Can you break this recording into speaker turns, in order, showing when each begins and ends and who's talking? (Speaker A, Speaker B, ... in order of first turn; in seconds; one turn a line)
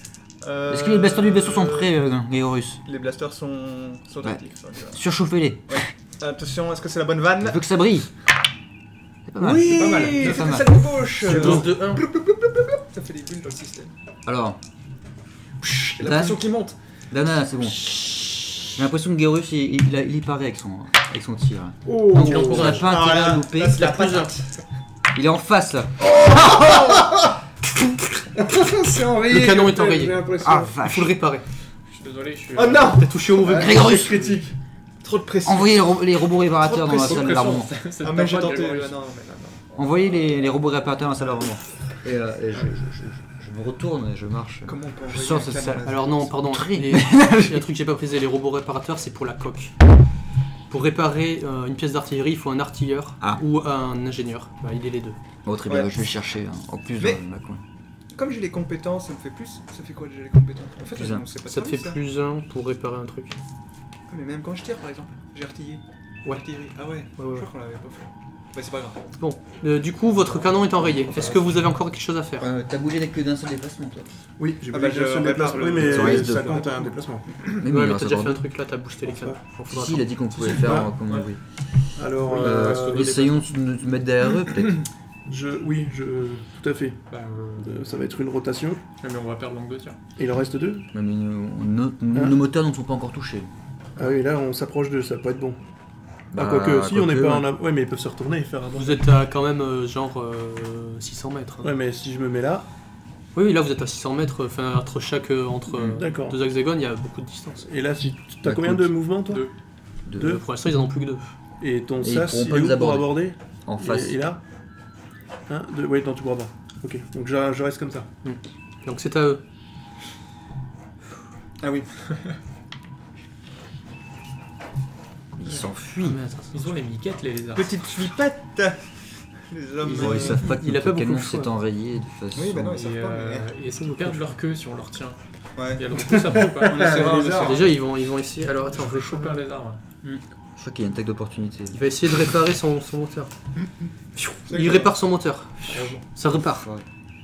Speaker A: 0.4-1.9
Speaker B: 0.7-2.8
Speaker A: 2.8-5.1
Speaker B: 4.2-5.9
Speaker A: 5.7-7.7
Speaker B: 7.4-8.1
Speaker B: 9.3-11.8
Speaker C: 9.3-10.5
Speaker A: 9.7-13.9
Speaker C: 11.2-12.0
Speaker B: 14.2-14.6
Speaker A: 15.6-16.8
Speaker B: 15.8-16.5
Speaker B: 17.1-23.9
Speaker D: 21.8-22.9
Speaker C: 22.1-22.9
Speaker A: 22.4-24.6
Speaker C: 23.7-24.3
Speaker B: 25.1-26.1
Speaker D: 26.3-27.2
Speaker D: 28.3-30.8
Speaker C: 29.3-30.3
Speaker B: 30.4-31.2
Speaker C: 30.8-31.4
Speaker E: 31.9-33.1
Speaker A: 32.5-33.5
Speaker C: 33.0-34.1
Speaker D: 33.4-34.5
Speaker B: 33.5-34.4
Speaker A: 35.0-39.7
Speaker B: 35.4-37.7
Speaker E: 36.9-39.0
Speaker B: 39.7-47.6
Speaker A: 44.6-46.2
Speaker C: 45.8-49.7
Speaker C: 50.7-55.2
Speaker B: 55.4-57.6
Speaker A: 55.7-56.1
Speaker A: 58.1-62.0
Speaker B: 60.9-61.2
Speaker C: 61.5-63.3
Speaker A: 64.1-69.0
Speaker C: 67.2-67.5
Speaker C: 69.2-72.5
Speaker B: 72.4-74.1
Speaker D: 74.4-77.2
Speaker A: 74.7-77.0
Speaker B: 75.9-76.7
Speaker B: 77.5-78.4
Speaker C: 77.6-80.1
Speaker D: 79.0-79.4
Speaker B: 79.7-81.4
Speaker E: 80.4-81.3
Speaker D: 80.5-80.9
Speaker D: 82.0-83.1
Speaker C: 82.3-83.3
Speaker B: 82.4-84.9
Speaker E: 82.5-83.3
Speaker D: 85.3-87.0
Speaker E: 87.1-87.9
Speaker D: 87.6-88.8
Speaker E: 89.0-90.0
Speaker D: 90.2-90.9
Speaker B: 90.9-93.5
Speaker D: 94.0-95.6
Speaker B: 96.3-97.5
Speaker D: 96.3-99.0
Speaker C: 98.7-101.7
Speaker D: 101.6-102.7
Speaker C: 103.3-107.7
Speaker D: 105.9-106.4
Speaker D: 107.6-109.5
Speaker B: 108.4-109.0
Speaker B: 110.1-110.4
Speaker C: 110.1-111.3
Speaker D: 110.1-110.4
Speaker D: 111.6-114.4
Speaker B: 112.0-114.2
Speaker D: 115.5-118.1
Speaker C: 118.2-119.4
Speaker A: 121.6-121.9
Speaker B: 125.3-126.2
Speaker C: 126.0-126.6
Speaker E: 126.5-127.8
Speaker A: 127.5-130.4
Speaker C: 129.8-131.5
Speaker B: 130.0-132.8
Speaker A: 132.3-133.5
Speaker E: 132.7-137.5
Speaker A: 135.6-137.7
Speaker D: 136.1-137.2
Speaker C: 136.7-139.4
Speaker E: 138.8-139.8
Speaker B: 140.6-141.8
Speaker C: 141.7-143.3
Speaker C: 144.2-146.7
Speaker A: 144.5-144.9
Speaker E: 145.7-146.0
Speaker B: 146.5-146.8